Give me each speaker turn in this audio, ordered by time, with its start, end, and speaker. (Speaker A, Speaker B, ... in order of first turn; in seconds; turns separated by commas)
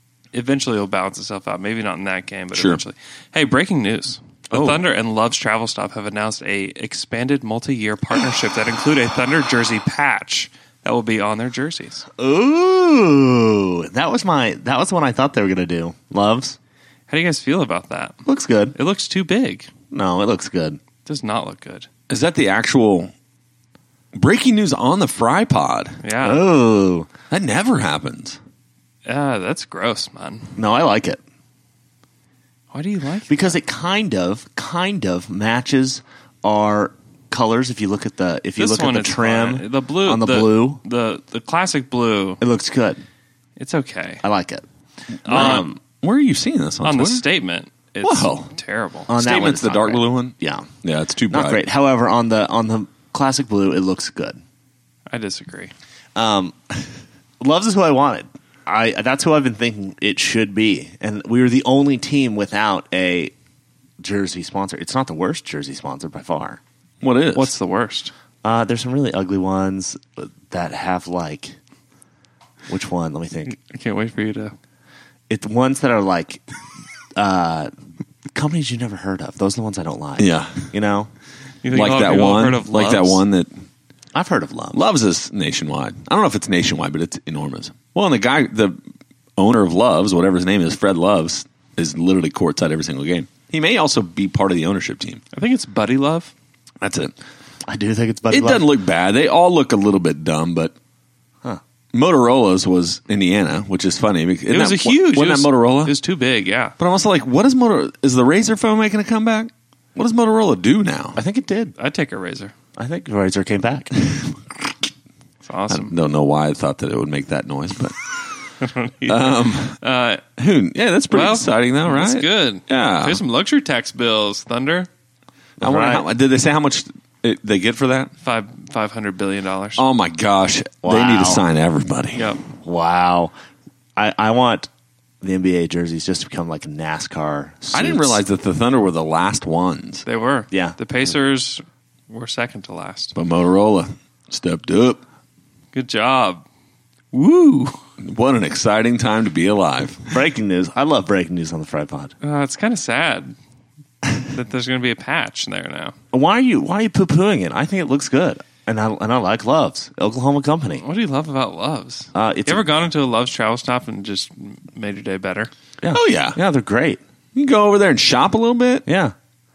Speaker A: 0.3-12.1, Speaker B: 2.5-2.8, Speaker B: 4.5-4.8, Speaker C: 12.2-16.6, Speaker A: 17.1-18.2, Speaker C: 18.3-18.8, Speaker A: 18.8-19.7, Speaker C: 19.9-20.8, Speaker A: 21.1-21.9, Speaker B: 22.1-23.1, Speaker B: 24.1-26.0, Speaker A: 26.0-26.4, Speaker C: 26.2-27.1, Speaker B: 27.3-28.4, Speaker A: 29.1-30.6, Speaker C: 30.6-31.2, Speaker A: 32.7-33.6, Speaker C: 33.3-40.8, Speaker A: 38.6-42.4, Speaker C: 42.4-43.0, Speaker A: 43.6-44.2, Speaker C: 44.2-44.6, Speaker A: 45.2-45.7, Speaker C: 45.2-45.8, Speaker B: 45.3-47.3, Speaker A: 46.8-49.1, Speaker B: 48.0-48.5, Speaker C: 49.1-50.7, Speaker B: 49.1-51.6, Speaker C: 51.3-54.4, Speaker A: 55.1-55.7, Speaker C: 56.2-56.9, Speaker C: 57.4-63.3, Speaker C: 64.0-66.6, Speaker B: 67.0-67.5, Speaker A: 67.3-68.1, Speaker C: 68.4-71.6, Speaker C: 72.7-73.5, Speaker A: 73.5-74.5, Speaker C: 75.3-76.4, Speaker C: 77.2-77.7, Speaker C: 78.3-81.1, Speaker B: 80.2-80.7, Speaker A: 81.6-83.2, Speaker B: 81.7-83.5, Speaker C: 84.1-84.8, Speaker B: 84.7-88.8, Speaker B: 89.4-95.2, Speaker A: 95.3-96.3, Speaker B: 96.8-97.1, Speaker C: 97.7-98.7, Speaker B: 98.3-100.8, Speaker B: 101.9-106.0, Speaker A: 104.5-106.8, Speaker B: 106.8-111.2, Speaker C: 111.2-111.8, Speaker A: 111.8-112.5, Speaker C: 112.8-114.2, Speaker A: 115.4-115.9, Speaker B: 115.7-118.0, Speaker A: 118.6-120.2, Speaker B: 119.1-119.8, Speaker B: 120.4-123.2, Speaker A: 121.1-124.9, Speaker C: 125.6-126.0, Speaker B: 125.6-128.1, Speaker A: 128.2-129.8, Speaker B: 129.8-132.3, Speaker C: 130.8-131.4, Speaker A: 132.2-132.4, Speaker C: 132.6-133.3, Speaker C: 134.0-134.7, Speaker C: 135.2-138.2, Speaker B: 137.7-140.1, Speaker A: 140.1-143.2, Speaker C: 140.5-140.8, Speaker B: 143.2-145.0, Speaker A: 145.7-146.4, Speaker A: 147.1-147.8, Speaker B: 148.0-150.1, Speaker C: 150.1-152.1, Speaker A: 152.2-153.3, Speaker A: 154.2-155.9, Speaker C: 156.1-160.8, Speaker A: 160.8-165.5, Speaker C: 162.2-162.7, Speaker C: 165.8-167.0, Speaker B: 165.9-166.4, Speaker B: 167.3-168.9, Speaker C: 168.9-169.1